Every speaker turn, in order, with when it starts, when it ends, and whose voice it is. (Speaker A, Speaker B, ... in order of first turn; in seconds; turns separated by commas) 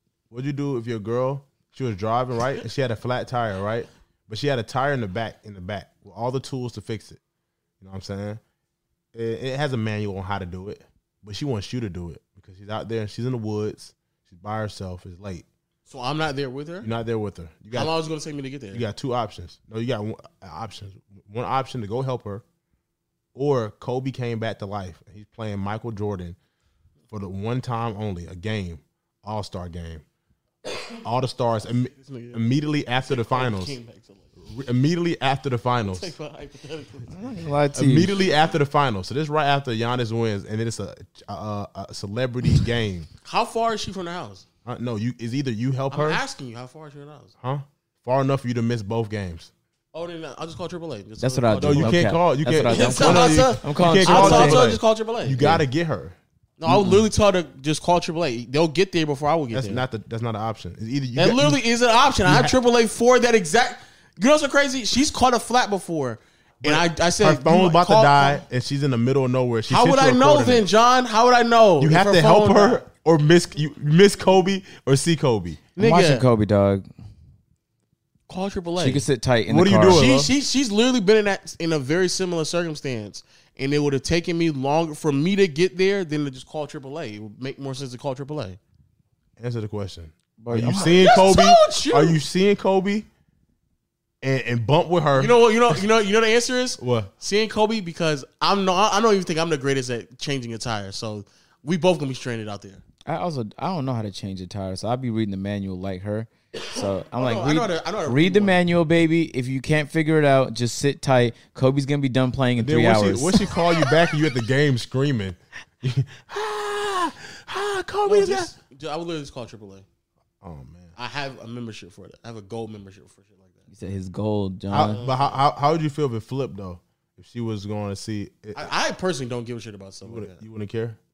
Speaker A: 0.3-7.2, Speaker A: 7.8-8.4, Speaker A: 9.1-15.5, Speaker B: 15.9-16.9, Speaker A: 16.8-17.9, Speaker B: 17.7-18.8, Speaker A: 18.7-22.4, Speaker A: 23.4-26.4, Speaker A: 27.1-30.0, Speaker A: 31.0-33.8, Speaker B: 31.9-34.4, Speaker A: 34.5-36.1, Speaker B: 35.8-37.2, Speaker C: 37.1-38.1, Speaker A: 37.8-43.1, Speaker B: 43.2-44.5, Speaker A: 44.6-46.2, Speaker B: 45.9-47.3, Speaker A: 47.4-49.5, Speaker B: 49.9-52.0, Speaker C: 51.2-54.7, Speaker A: 51.6-56.2, Speaker B: 52.7-55.6, Speaker B: 56.6-59.9, Speaker A: 59.5-61.6, Speaker B: 61.2-68.4, Speaker A: 62.3-62.5, Speaker A: 66.6-70.7, Speaker B: 69.7-72.8, Speaker A: 71.8-75.6, Speaker B: 75.8-76.3, Speaker C: 75.8-76.9, Speaker B: 78.3-79.0, Speaker C: 78.8-80.1, Speaker A: 79.5-80.3, Speaker B: 79.9-88.6, Speaker A: 89.4-93.1, Speaker C: 90.4-91.2, Speaker B: 90.8-92.2, Speaker A: 94.2-95.8, Speaker B: 95.2-102.8, Speaker A: 96.8-97.1, Speaker C: 103.1-113.5, Speaker B: 107.1-108.6, Speaker A: 112.6-118.5, Speaker B: 118.0-119.8, Speaker A: 120.4-120.9, Speaker B: 121.0-123.7, Speaker C: 123.7-125.0, Speaker A: 124.7-128.7, Speaker B: 124.8-125.4, Speaker B: 128.6-130.4, Speaker A: 130.1-131.0